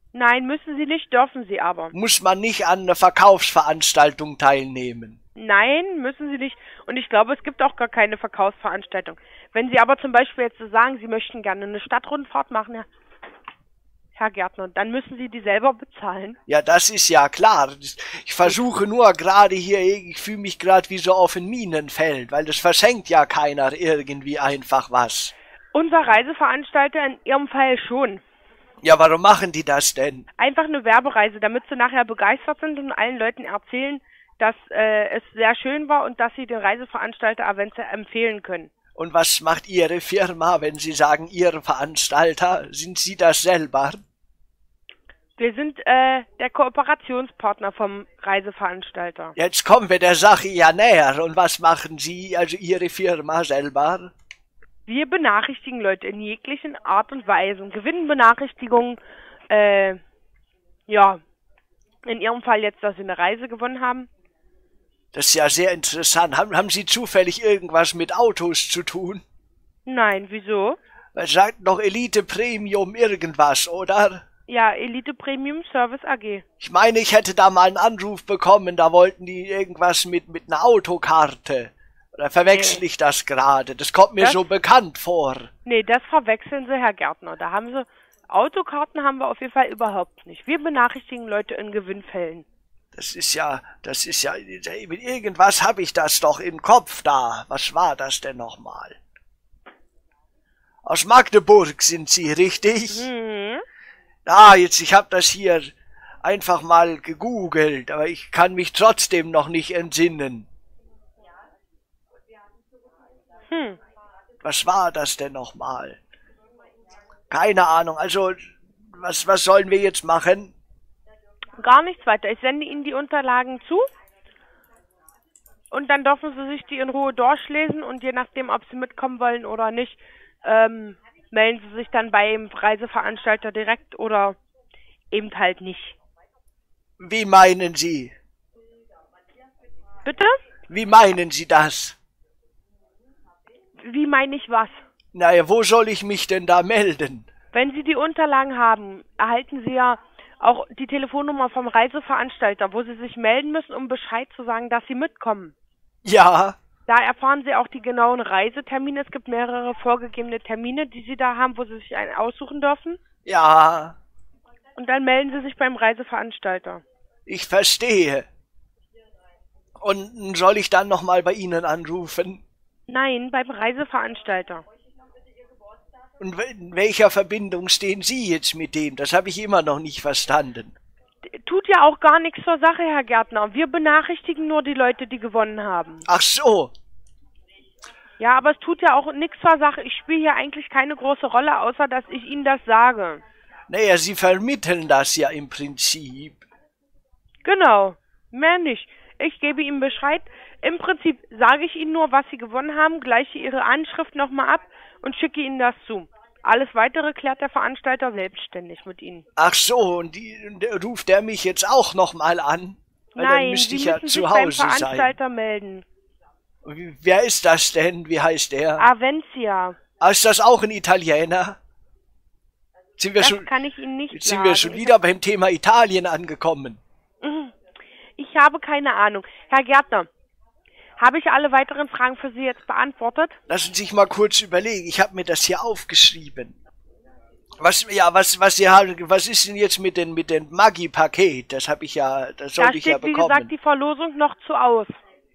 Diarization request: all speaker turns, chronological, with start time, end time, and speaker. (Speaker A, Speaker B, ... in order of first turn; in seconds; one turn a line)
Speaker A: 0.1-1.9
Speaker B: 1.9-5.2
Speaker A: 5.4-12.9
Speaker A: 14.2-16.4
Speaker B: 16.5-25.3
Speaker A: 25.7-28.2
Speaker B: 28.8-30.3
Speaker A: 30.4-38.7
Speaker B: 39.0-44.0
Speaker A: 45.4-49.4
Speaker B: 49.4-54.1
Speaker A: 54.9-59.0
Speaker A: 59.5-60.0
Speaker A: 60.9-61.2
Speaker A: 62.0-64.1
Speaker B: 65.1-69.2
Speaker A: 69.9-70.8
Speaker B: 71.2-74.2
Speaker A: 74.5-76.4
Speaker B: 76.6-85.5
Speaker A: 82.5-82.8
Speaker A: 84.2-84.5
Speaker A: 85.7-92.5
Speaker B: 92.9-99.0
Speaker B: 100.8-103.1
Speaker A: 102.9-103.6
Speaker B: 104.3-110.5
Speaker A: 113.5-113.8
Speaker B: 114.4-116.0
Speaker B: 117.3-120.5
Speaker A: 121.6-123.9
Speaker A: 125.7-134.4
Speaker A: 135.1-136.0
Speaker B: 137.0-138.1
Speaker A: 140.1-140.3
Speaker B: 140.7-142.0
Speaker A: 143.8-144.8
Speaker B: 145.1-147.3
Speaker A: 147.5-155.5
Speaker B: 156.1-156.6
Speaker A: 156.9-163.0
Speaker B: 163.2-164.0
Speaker A: 164.8-166.8
Speaker B: 167.3-168.3
Speaker B: 169.8-172.4
Speaker A: 172.9-174.6
Speaker B: 176.2-180.8
Speaker A: 181.3-186.1
Speaker B: 186.1-186.7
Speaker A: 188.2-193.2
Speaker B: 193.7-196.4
Speaker A: 197.4-209.3
Speaker B: 209.4-215.1
Speaker A: 213.2-215.8
Speaker B: 216.7-218.8
Speaker A: 218.8-219.8
Speaker B: 220.0-221.6
Speaker B: 223.0-223.5
Speaker A: 223.2-225.0
Speaker B: 224.1-226.8
Speaker A: 227.2-227.5
Speaker A: 228.2-230.1
Speaker A: 231.0-233.4
Speaker B: 233.5-236.6
Speaker B: 237.6-243.5
Speaker A: 242.6-244.9